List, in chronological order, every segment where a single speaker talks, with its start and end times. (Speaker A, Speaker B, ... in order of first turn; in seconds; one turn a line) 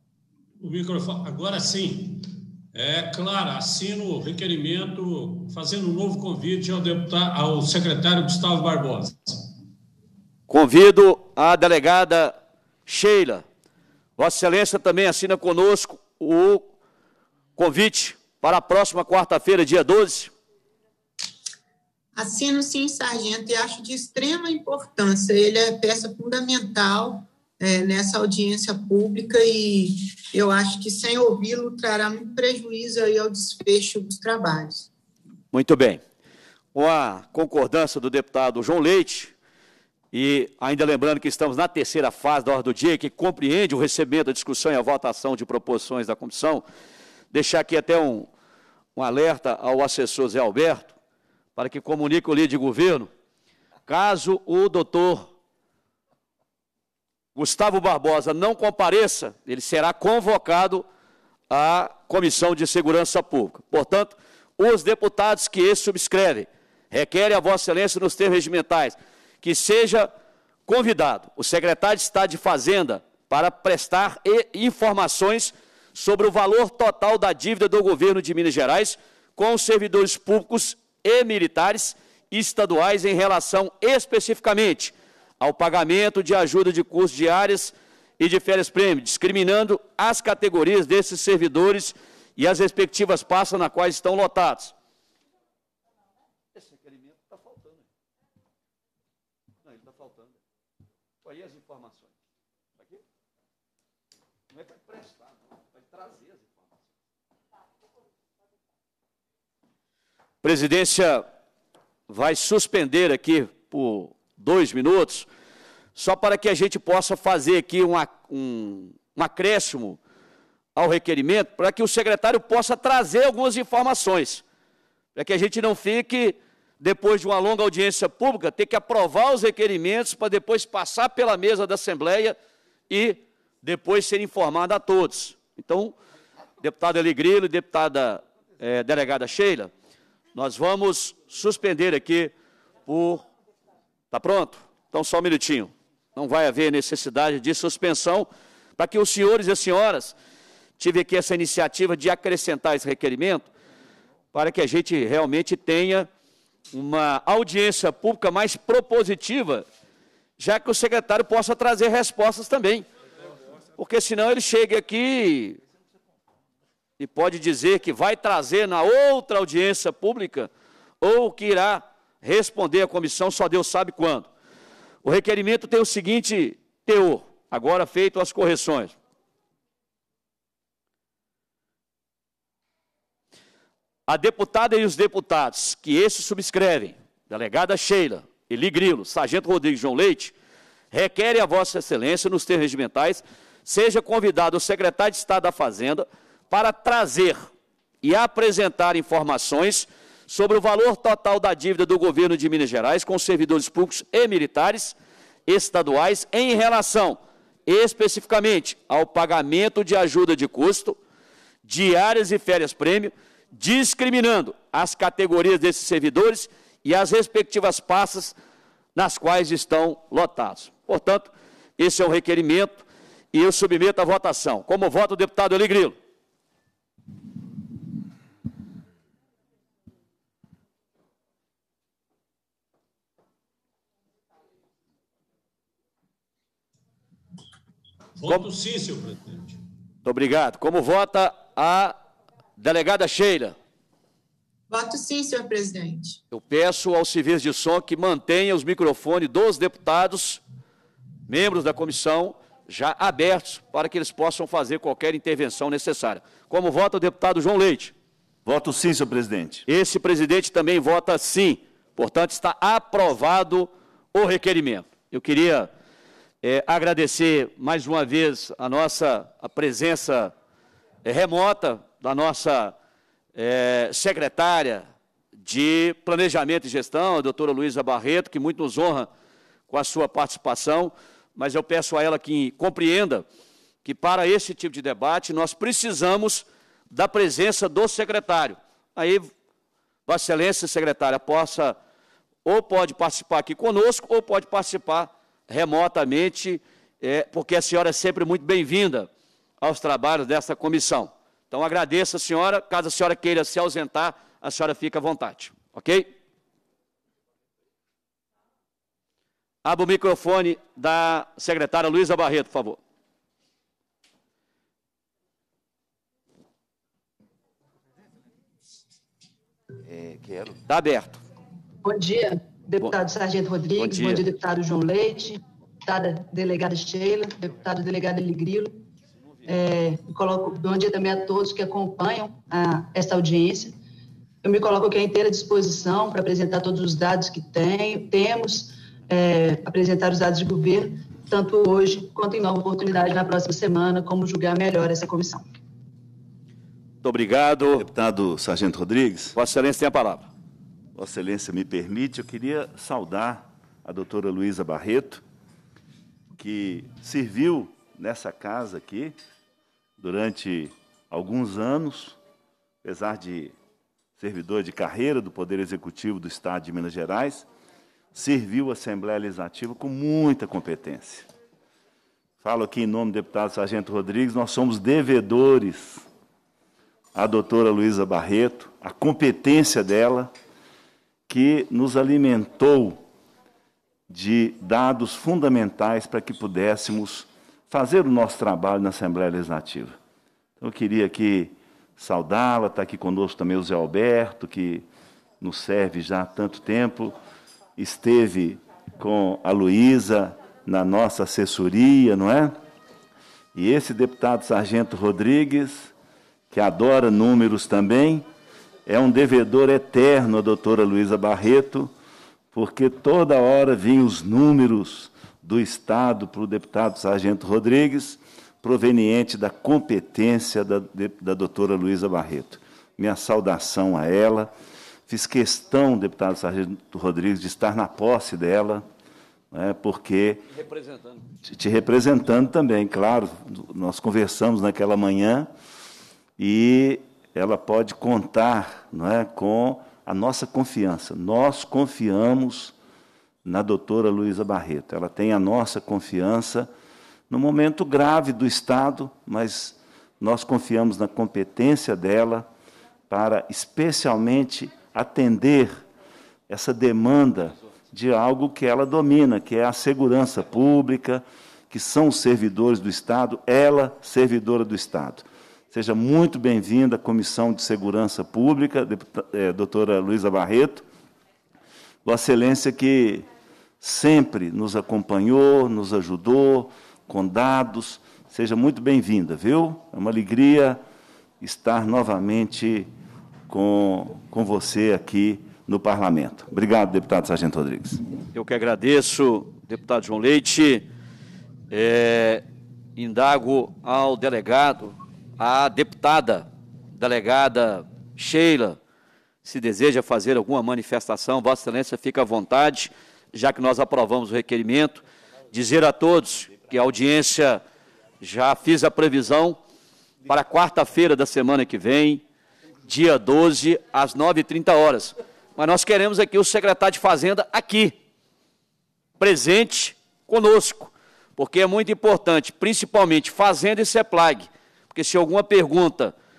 Speaker A: 0.6-9.4
Speaker B: 10.5-13.5
Speaker B: 14.2-16.7
Speaker B: 17.6-20.3
Speaker C: 22.2-34.9
Speaker B: 35.5-36.0
Speaker B: 36.8-39.3
Speaker B: 40.1-46.7
Speaker B: 47.3-48.3
Speaker B: 49.0-50.9
Speaker B: 51.6-53.1
Speaker B: 53.9-55.3
Speaker B: 57.4-60.9
Speaker B: 61.5-70.1
Speaker B: 70.7-94.7
Speaker B: 96.6-97.7
Speaker B: 99.7-100.3
Speaker B: 101.3-102.1
Speaker B: 110.4-111.2
Speaker B: 112.1-115.3
Speaker B: 116.0-120.0
Speaker B: 120.8-124.4
Speaker B: 125.2-132.4
Speaker B: 132.9-135.9
Speaker B: 136.6-139.7
Speaker B: 140.3-142.3
Speaker B: 142.9-143.2
Speaker B: 144.1-150.2
Speaker B: 150.8-153.5
Speaker B: 154.3-156.1
Speaker B: 156.7-159.7
Speaker B: 160.4-162.9
Speaker B: 163.8-165.6
Speaker B: 167.0-170.5
Speaker B: 171.0-174.3
Speaker B: 175.0-178.9
Speaker B: 184.1-190.3
Speaker B: 190.9-197.5
Speaker B: 198.0-205.0
Speaker B: 205.5-211.0
Speaker B: 211.7-218.4
Speaker B: 218.9-226.0
Speaker A: 238.2-239.6
Speaker B: 240.1-242.0
Speaker B: 242.6-243.6
Speaker C: 244.7-246.2
Speaker B: 246.3-250.4
Speaker B: 251.3-257.9
Speaker D: 258.4-259.7
Speaker B: 259.7-265.7
Speaker B: 266.4-270.3
Speaker B: 271.1-272.8
Speaker B: 273.4-279.1
Speaker B: 279.7-283.2
Speaker B: 283.8-289.3
Speaker B: 290.1-291.8
Speaker B: 292.5-299.1
Speaker B: 299.6-306.1
Speaker B: 309.6-312.8
Speaker D: 319.8-320.6
Speaker B: 320.7-321.2
Speaker E: 321.8-328.8
Speaker B: 323.8-324.2
Speaker E: 329.5-333.8
Speaker E: 334.4-345.4
Speaker B: 347.0-347.9
Speaker D: 347.8-349.4
Speaker B: 349.4-350.3
Speaker D: 350.9-355.2
Speaker D: 356.4-359.1
Speaker D: 360.0-362.2
Speaker D: 362.8-363.6
Speaker D: 364.2-367.5
Speaker D: 368.1-371.3
Speaker D: 372.4-376.1
Speaker D: 377.1-380.3
Speaker D: 381.3-383.0
Speaker D: 384.1-390.0
Speaker D: 390.6-394.9
Speaker D: 395.4-397.1
Speaker D: 397.8-402.6
Speaker D: 403.6-405.9
Speaker D: 406.5-408.3
Speaker D: 408.9-411.9
Speaker D: 412.5-424.5
Speaker D: 425.1-428.9
Speaker D: 429.5-430.4
Speaker B: 430.5-431.2
Speaker D: 431.4-435.5
Speaker D: 436.4-442.8
Speaker D: 443.4-446.7
Speaker D: 447.3-452.5
Speaker D: 453.1-455.8
Speaker D: 456.5-470.9
Speaker D: 472.1-473.3
Speaker D: 473.8-480.8
Speaker D: 481.4-482.9
Speaker D: 483.5-488.0
Speaker B: 488.3-490.9
Speaker B: 491.7-492.4
Speaker B: 493.0-498.8
Speaker B: 499.4-507.6
Speaker B: 508.2-509.6
Speaker B: 510.3-512.2
Speaker B: 512.9-518.0
Speaker B: 519.2-526.1